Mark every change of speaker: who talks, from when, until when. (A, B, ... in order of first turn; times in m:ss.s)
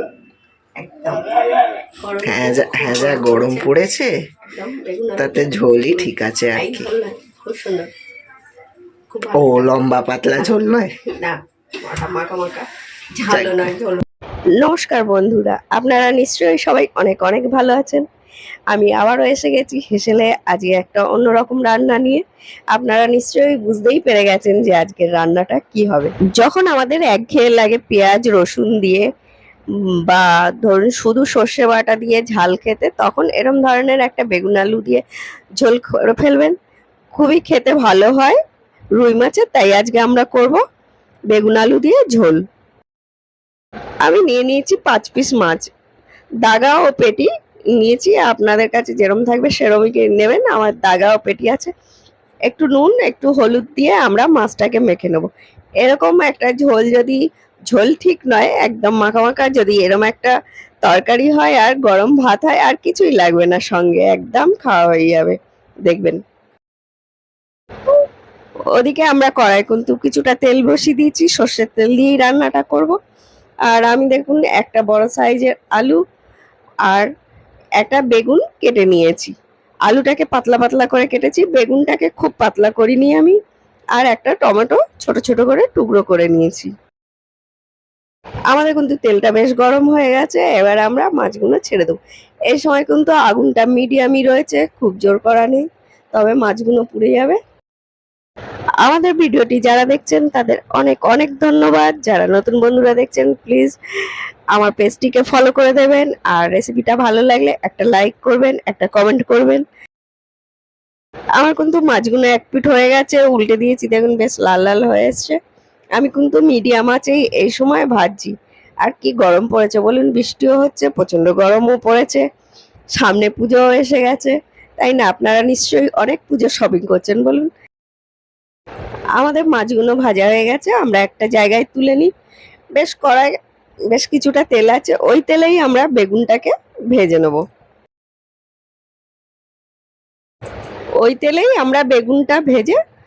0:00.8-0:01.3 A
0:02.0-0:03.7 A
0:02.2-0:04.1 B
0:04.5-0:07.9 A
0:05.2-0:06.9 B
0:09.1-0:09.7 A
0:09.3-0:10.9 B
0:10.3-0:14.0 A
0:13.2-0:13.7 B
0:14.6-0:18.0 A
0:18.7-0:22.2 A
0:22.7-0:29.0 A
0:30.1-0:35.0 A
0:35.6-0:36.5 A
0:37.2-0:38.4 A
0:39.0-0:40.6 A
0:41.3-0:42.4 A
0:44.0-0:45.6 A
0:46.4-0:51.7 A
0:52.5-0:55.3 A
0:55.8-0:57.2 A
0:57.7-1:00.3 A
1:00.8-1:05.4 A
1:05.9-1:06.2 A
1:08.8-1:12.9 A
1:13.7-1:16.0 A
1:17.8-1:19.3 A
1:19.9-1:23.4 A
1:24.0-1:26.7 A
1:28.5-1:32.0 A
1:32.5-1:37.4 A
1:38.8-1:43.8 A
1:44.5-1:49.6 A
1:51.4-1:55.4 A
1:56.0-1:58.3 A
1:58.8-2:02.2 A
2:03.0-2:07.5 A
2:09.2-2:12.1 A
2:12.8-2:13.4 A
2:13.9-2:17.4 A
2:21.0-2:22.8 A